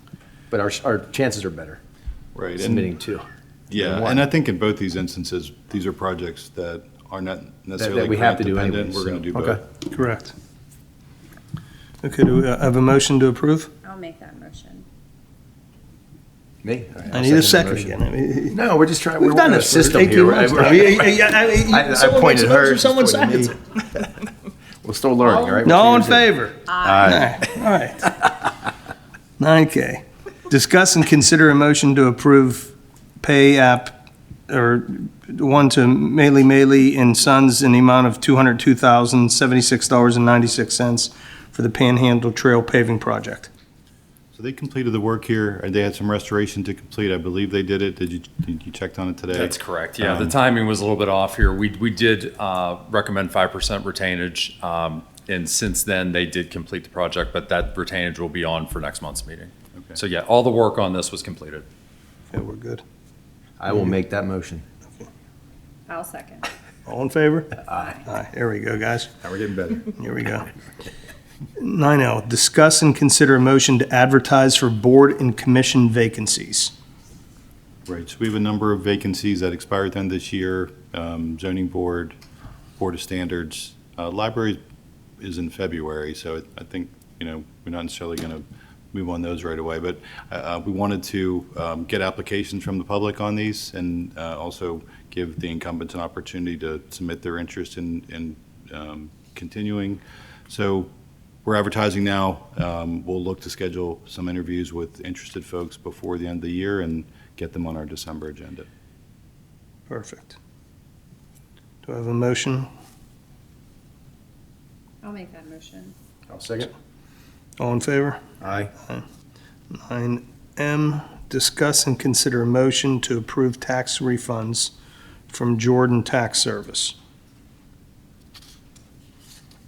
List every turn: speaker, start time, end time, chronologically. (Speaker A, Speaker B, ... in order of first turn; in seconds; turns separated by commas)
Speaker A: 0.5-1.8, Speaker B: 2.4-2.9, Speaker A: 2.6-4.3, Speaker B: 3.7-9.6, Speaker A: 7.8-9.6, Speaker C: 9.9-10.3, Speaker C: 12.0-13.7, Speaker D: 13.8-14.9, Speaker A: 16.6-18.0, Speaker C: 17.1-18.6, Speaker A: 18.5-23.6, Speaker C: 19.2-23.7, Speaker A: 24.8-26.3, Speaker D: 25.2-25.7, Speaker C: 25.6-28.1, Speaker D: 26.7-27.1, Speaker A: 26.8-27.5, Speaker C: 29.4-34.0, Speaker C: 34.5-43.5, Speaker B: 44.3-50.4, Speaker E: 49.3-61.7, Speaker C: 62.3-62.8, Speaker A: 63.6-64.6, Speaker D: 65.9-66.5, Speaker C: 66.9-69.1, Speaker A: 67.7-68.0, Speaker D: 67.7-68.0, Speaker A: 69.2-69.9, Speaker C: 69.9-70.5, Speaker C: 71.6-76.7, Speaker B: 77.9-82.2, Speaker B: 82.8-84.6, Speaker B: 85.2-100.9, Speaker B: 101.4-108.7, Speaker C: 109.9-110.4, Speaker C: 111.8-112.7, Speaker D: 115.0-116.0, Speaker A: 116.3-116.7, Speaker C: 117.6-118.2, Speaker A: 118.4-118.7, Speaker C: 119.7-124.7, Speaker C: 125.3-127.0